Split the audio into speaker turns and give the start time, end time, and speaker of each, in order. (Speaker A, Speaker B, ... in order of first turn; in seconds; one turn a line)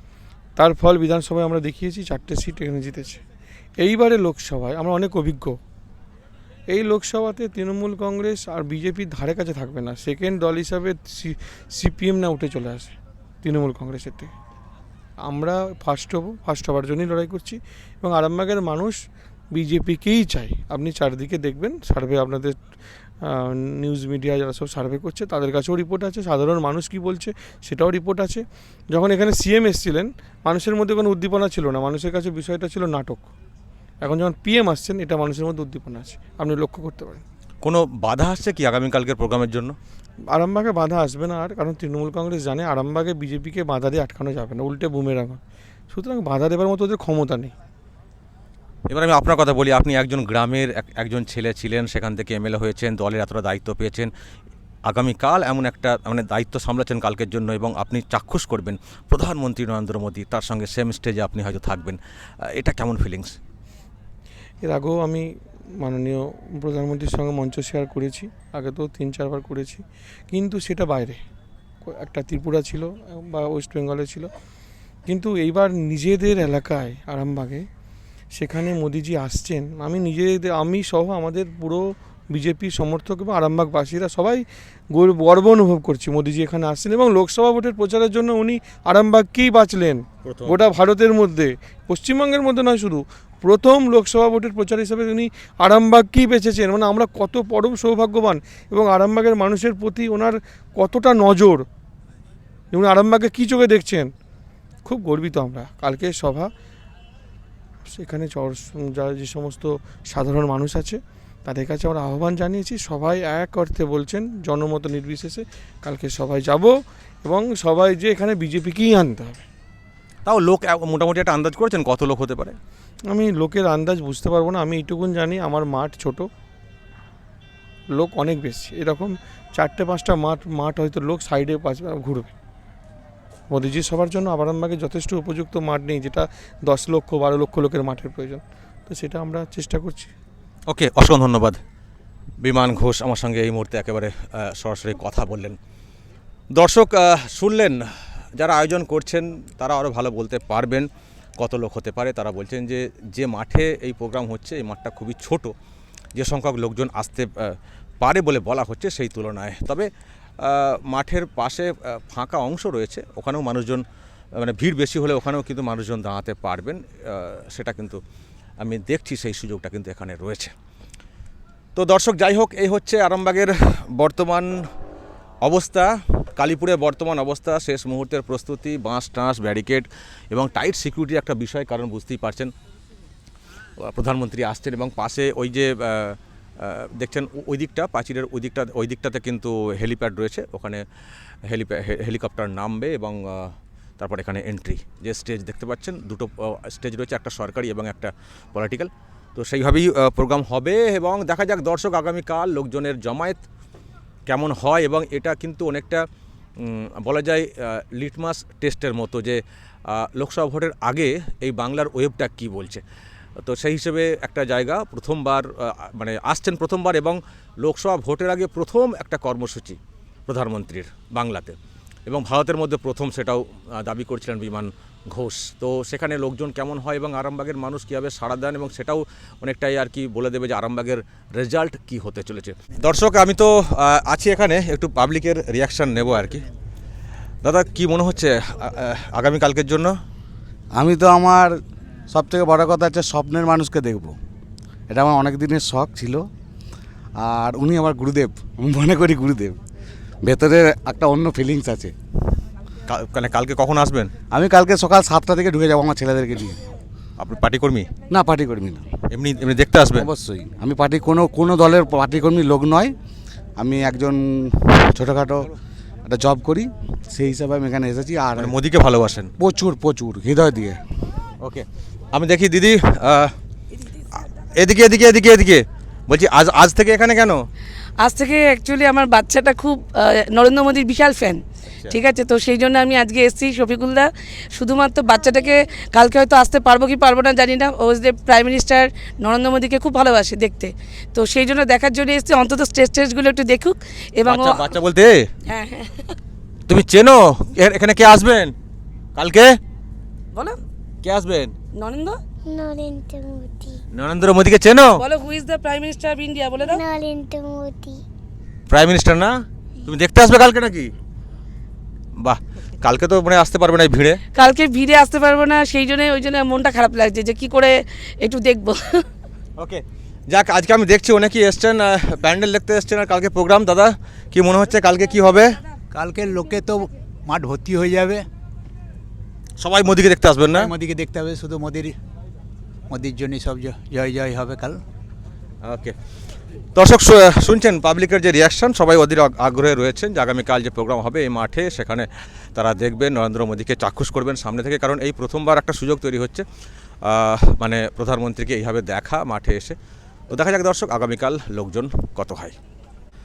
Speaker A: 0.6-3.2
Speaker A: 3.8-5.6
Speaker A: 6.7-14.3
Speaker A: 15.2-19.0
Speaker A: 19.5-22.6
Speaker A: 23.2-33.3
Speaker A: 34.0-37.2
Speaker B: 37.6-39.8
Speaker A: 40.3-45.4
Speaker A: 45.9-47.5
Speaker B: 48.9-54.1
Speaker B: 54.9-62.0
Speaker B: 62.5-63.4
Speaker A: 64.6-65.2
Speaker A: 65.8-71.2
Speaker A: 71.9-74.3
Speaker A: 75.1-77.7
Speaker A: 78.3-101.7
Speaker B: 90.2-90.6
Speaker A: 102.7-104.1
Speaker A: 104.8-106.5
Speaker A: 107.9-116.7
Speaker A: 117.2-119.4
Speaker B: 120.2-122.6
Speaker A: 123.1-126.3
Speaker A: 127.9-132.3
Speaker A: 133.5-140.1
Speaker B: 140.7-141.6
Speaker B: 142.4-145.6
Speaker B: 146.5-155.5
Speaker B: 156.2-159.9
Speaker B: 160.4-163.8
Speaker B: 164.4-168.0
Speaker B: 168.6-170.5
Speaker B: 171.8-174.5
Speaker B: 175.4-182.5
Speaker B: 183.8-190.8
Speaker B: 191.5-203.4
Speaker B: 204.3-206.0
Speaker B: 206.6-212.8
Speaker B: 213.4-236.4
Speaker B: 237.4-239.9
Speaker C: 240.8-241.6
Speaker C: 242.1-244.2
Speaker C: 244.9-246.3
Speaker C: 247.2-249.6
Speaker C: 250.2-251.9
Speaker B: 252.9-254.1
Speaker C: 254.3-256.7
Speaker B: 257.2-257.9
Speaker C: 258.1-258.9
Speaker B: 259.1-260.1
Speaker C: 259.9-262.9
Speaker C: 263.6-268.6
Speaker B: 268.4-269.3
Speaker C: 269.4-270.8
Speaker B: 271.4-273.4
Speaker B: 274.6-277.4
Speaker D: 278.0-294.7
Speaker B: 281.7-282.0
Speaker B: 294.3-295.3
Speaker D: 295.5-296.2
Speaker B: 296.7-298.6
Speaker B: 299.2-299.6
Speaker D: 300.3-300.6
Speaker B: 301.0-301.6
Speaker D: 301.7-302.2
Speaker E: 302.4-303.8
Speaker B: 303.9-305.0
Speaker D: 305.0-306.9
Speaker E: 306.6-308.0
Speaker B: 308.7-310.9
Speaker B: 312.2-314.2
Speaker D: 314.3-319.1
Speaker B: 319.6-325.6
Speaker F: 325.9-328.3
Speaker B: 329.6-330.7
Speaker F: 330.5-332.0
Speaker F: 332.9-334.8
Speaker B: 335.6-335.9
Speaker B: 336.8-346.4
Speaker B: 347.0-349.8
Speaker B: 350.3-352.6